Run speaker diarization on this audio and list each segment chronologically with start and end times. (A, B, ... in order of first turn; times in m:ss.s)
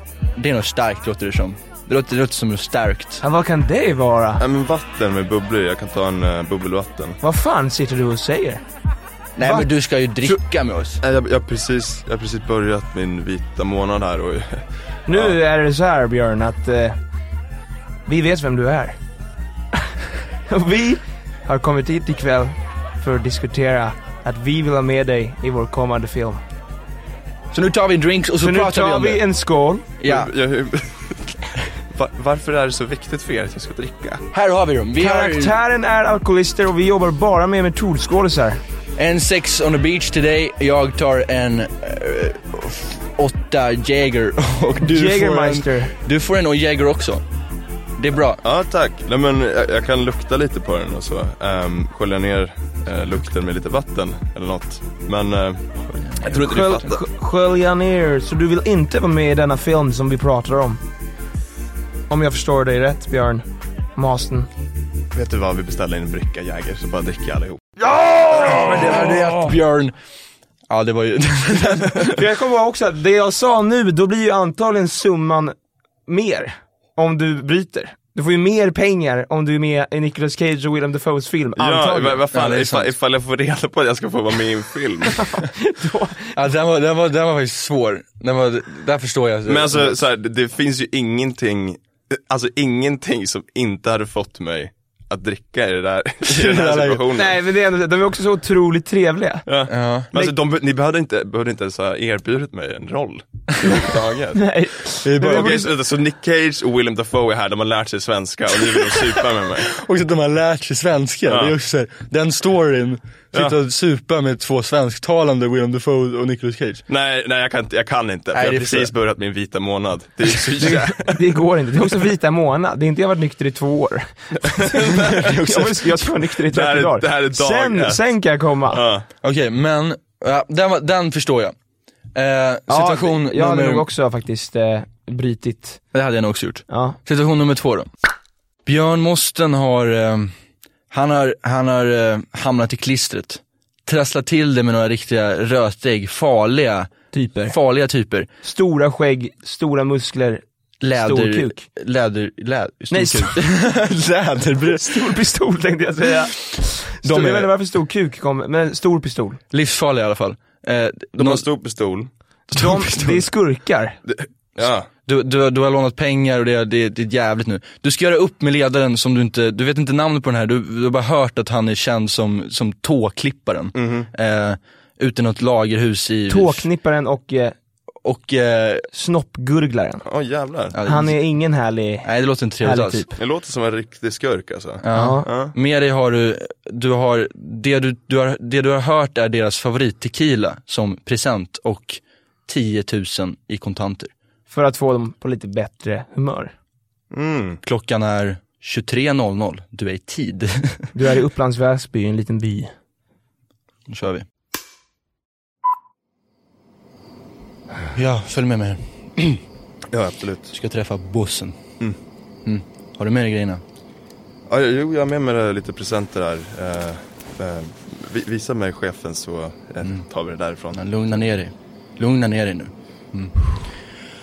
0:00.4-0:03.2 A
0:03.2-0:04.4 B
0:04.4-0:07.2 C
0:07.2-0:08.6 B
0:09.4-0:11.0 A
0:09.4-0:09.7 B
0:11.0-0:15.4 C
0:15.1-0:17.0 B
0:18.1-0:19.0 B
0:20.5-0:26.4 B
0:27.5-0:29.2 A
0:28.4-0:29.9 B
0:30.0-0:30.3 A
0:30.1-0:34.2 C
0:34.3-0:35.6 A
0:35.0-0:38.6 B
0:39.0-0:47.2 A
0:44.8-0:45.9 B
0:48.0-0:48.4 A
0:48.4-0:57.0 C
0:55.9-0:56.2 A
0:56.3-1:00.8 B
1:02.1-1:03.4 B
1:04.0-1:04.5 B
1:05.1-1:07.6 C
1:07.8-1:09.5 B
1:08.3-1:09.9 A
1:10.7-1:12.2 A
1:12.1-1:15.6 B
1:16.1-1:22.2 B
1:21.6-1:25.4 C
1:22.3-1:22.9 A
1:25.2-1:26.3 B
1:26.3-1:30.0 A
1:29.5-1:37.4 C
1:36.3-1:37.0 A
1:37.2-1:39.5 B
1:39.5-1:44.5 C
1:39.7-1:40.1 A
1:44.4-1:45.7 B
1:45.0-1:45.6 A
1:45.2-1:49.7 C
1:49.7-1:56.8 A
1:51.3-1:51.5 C
1:56.9-2:01.2 C
1:58.3-1:58.9 A
2:00.6-2:08.8 B
2:04.6-2:05.6 C
2:06.4-2:08.1 C
2:08.7-2:09.1 C
2:09.2-2:11.5 A
2:12.2-2:13.9 A
2:12.7-2:15.8 B
2:15.9-2:17.9 A
2:16.7-2:17.0 B
2:18.7-2:20.3 A
2:20.9-2:27.0 A
2:27.1-2:27.6 B
2:27.5-2:28.3 A
2:28.4-2:31.6 B
2:30.8-2:35.2 A
2:32.9-2:33.4 B
2:34.7-2:39.4 B
2:37.0-2:37.5 A
2:39.5-2:41.4 A
2:41.2-2:42.1 C
2:42.5-2:43.3 A
2:42.5-2:44.0 B
2:44.1-2:44.9 C
2:45.1-2:56.7 A
2:53.8-2:54.1 C
2:56.3-2:57.6 B
2:58.0-2:58.9 A
2:58.9-3:00.0 B
3:00.1-3:00.8 C
3:00.7-3:01.2 A
3:00.8-3:02.1 B
3:02.0-3:03.0 A
3:02.6-3:03.2 B
3:03.2-3:05.5 C
3:04.8-3:14.1 A
3:04.9-3:05.3 B
3:14.5-3:16.5 B
3:17.1-3:17.6 C
3:17.6-3:20.9 A
3:20.9-3:22.7 B
3:23.9-3:24.2 A
3:27.9-3:29.4 A
3:29.9-3:30.5 C
3:30.5-3:31.6 A
3:32.5-3:33.6 A
3:34.5-3:40.8 C
3:40.7-3:43.6 A